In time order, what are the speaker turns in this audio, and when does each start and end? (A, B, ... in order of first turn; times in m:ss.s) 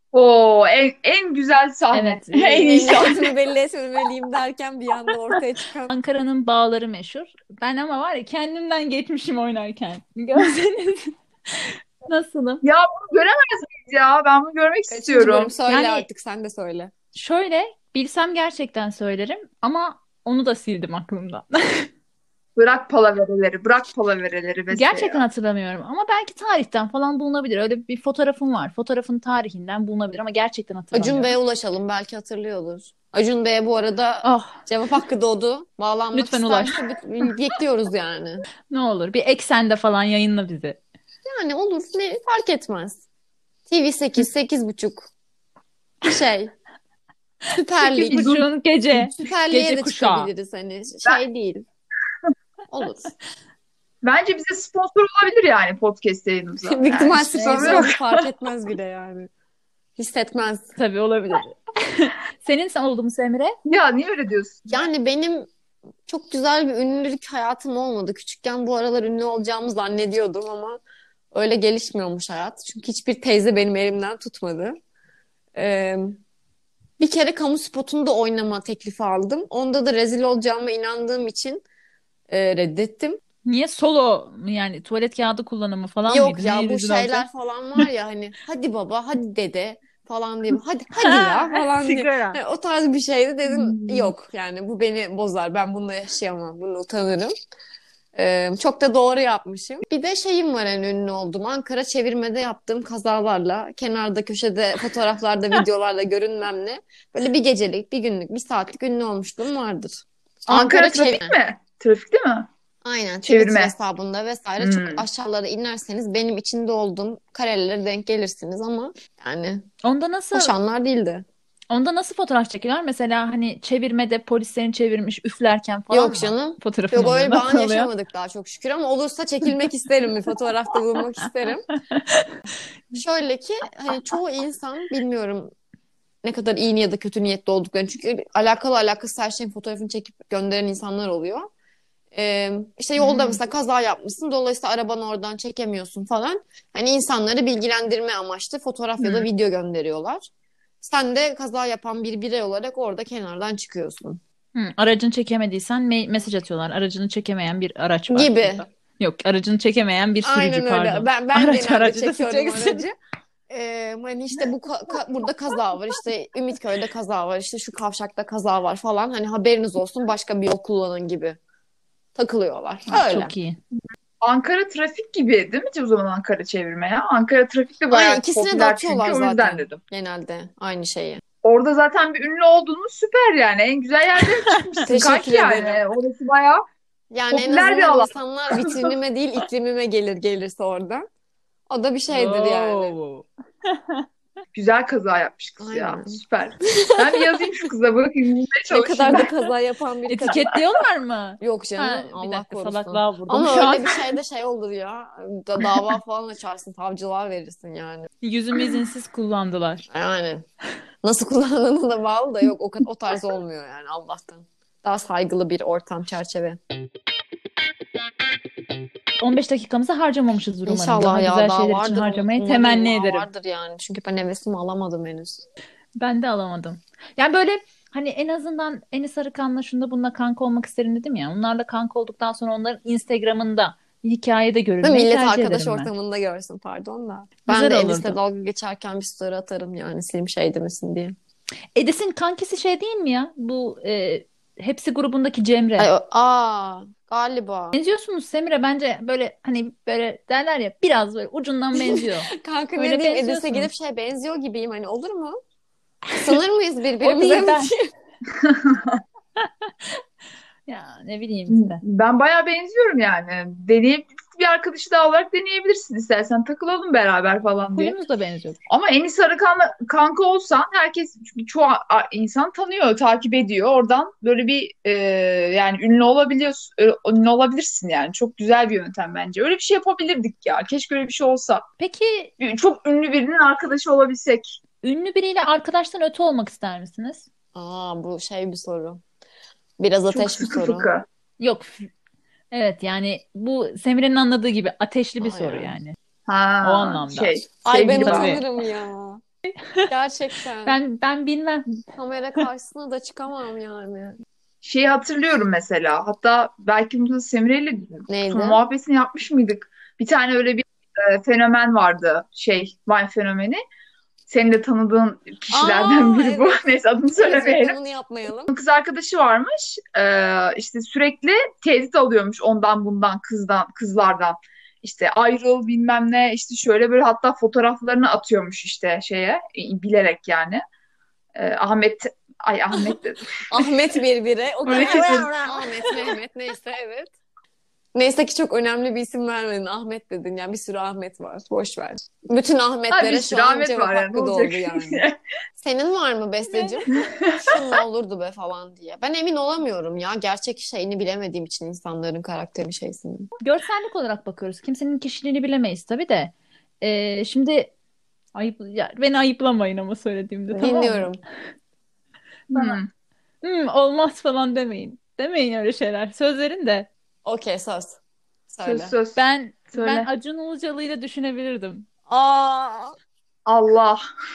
0:00.1-0:03.3 A
0:01.9-0:03.0 B
0:02.6-0:05.9 C
0:05.9-0:12.6 B
0:12.6-0:15.5 A
0:14.9-0:16.9 C
0:15.7-0:16.1 B
0:17.1-0:21.9 B
0:22.6-0:25.2 A
0:24.7-0:31.4 B
0:30.9-0:38.4 C
0:34.2-0:34.6 B
0:36.1-0:36.8 B
0:38.7-0:40.8 B
0:41.2-0:43.0 C
0:43.7-0:45.1 C
0:46.0-0:46.5 C
0:47.5-0:48.3 C
0:47.8-0:50.3 B
0:48.1-0:48.5 A
0:49.0-0:51.6 C
0:52.7-0:53.2 C
0:54.0-0:58.2 A
0:56.6-0:59.3 C
0:57.3-0:57.9 B
1:00.0-1:00.8 C
1:00.8-1:03.6 B
1:03.6-1:04.7 A
1:04.7-1:05.5 C
1:06.1-1:10.8 C
1:11.3-1:14.8 C
1:15.6-1:16.2 C
1:17.0-1:21.6 C
1:22.3-1:23.2 C
1:23.5-1:27.3 B
1:26.1-1:37.3 C
1:31.0-1:32.4 B
1:33.6-1:34.1 A
1:38.2-1:51.4 C
1:50.5-1:52.5 A
1:52.8-1:59.7 C
1:53.2-1:53.7 A
1:54.6-1:55.1 A
1:59.8-2:00.5 B
2:00.3-2:01.2 C
2:01.7-2:07.9 B
2:05.9-2:11.6 C
2:12.0-2:12.3 B
2:12.9-2:15.5 C
2:16.2-2:21.5 C
2:22.1-2:30.2 C
2:23.0-2:23.3 B
2:30.8-2:34.2 C
2:34.6-2:42.8 B
2:38.1-2:38.6 C
2:40.2-2:42.9 C
2:43.5-2:51.4 C
2:52.2-2:53.3 C
2:52.9-2:53.6 B
2:54.2-2:59.8 A
2:57.9-3:01.2 C
3:01.4-3:06.6 A
3:04.3-3:04.9 B
3:04.9-3:05.8 C
3:07.1-3:11.0 C
3:07.3-3:08.9 A
3:11.7-3:13.0 C
3:12.1-3:14.0 B
3:14.5-3:19.4 A
3:15.6-3:17.4 C
3:18.7-3:20.5 C
3:20.1-3:24.0 B
3:21.4-3:28.1 C
3:28.2-3:29.8 B
3:29.9-3:30.5 C
3:31.0-3:36.6 C
3:39.2-3:43.3 B
3:40.7-3:45.5 C
3:46.0-3:55.9 B
3:54.8-4:01.2 C
3:57.5-3:58.2 B
4:01.8-4:05.9 B
4:05.8-4:07.8 C
4:07.7-4:13.7 B
4:11.8-4:15.4 C
4:16.2-4:17.9 C
4:17.0-4:17.8 B
4:18.4-4:19.0 A
4:20.7-4:21.8 B
4:21.5-4:28.0 A
4:27.7-4:28.6 B
4:28.7-4:41.6 A
4:41.8-4:42.3 B
4:42.4-4:44.6 A
4:44.8-4:47.3 B
4:47.6-4:49.0 C
4:49.8-4:50.9 C
4:50.1-4:51.0 A
4:51.4-4:51.9 B
4:52.5-4:56.0 B
4:55.2-4:55.8 C
4:56.3-4:58.4 A
4:56.6-4:57.4 B
4:57.6-4:59.2 C
4:57.9-4:58.4 B
4:59.9-5:00.8 C
5:00.7-5:01.6 B
5:02.0-5:04.2 C
5:04.6-5:13.6 A
5:08.1-5:08.6 C
5:14.3-5:17.8 A
5:15.5-5:16.6 C
5:17.2-5:18.5 C
5:18.5-5:30.6 A
5:31.4-5:33.4 A
5:33.5-5:37.1 C
5:34.7-5:35.6 A
5:37.9-5:45.0 C
5:42.9-5:45.2 A
5:45.6-5:46.9 C
5:46.4-5:47.0 B
5:47.2-5:47.6 A
5:47.4-5:53.3 C
5:53.4-5:57.7 B
5:58.4-6:01.1 B
6:00.5-6:01.2 C
6:02.5-6:02.8 B
6:02.5-6:02.9 A
6:03.4-6:06.9 B
6:07.2-6:08.9 C
6:08.6-6:09.2 A
6:09.2-6:11.9 B
6:09.7-6:10.1 A
6:12.1-6:12.9 C
6:13.5-6:14.0 A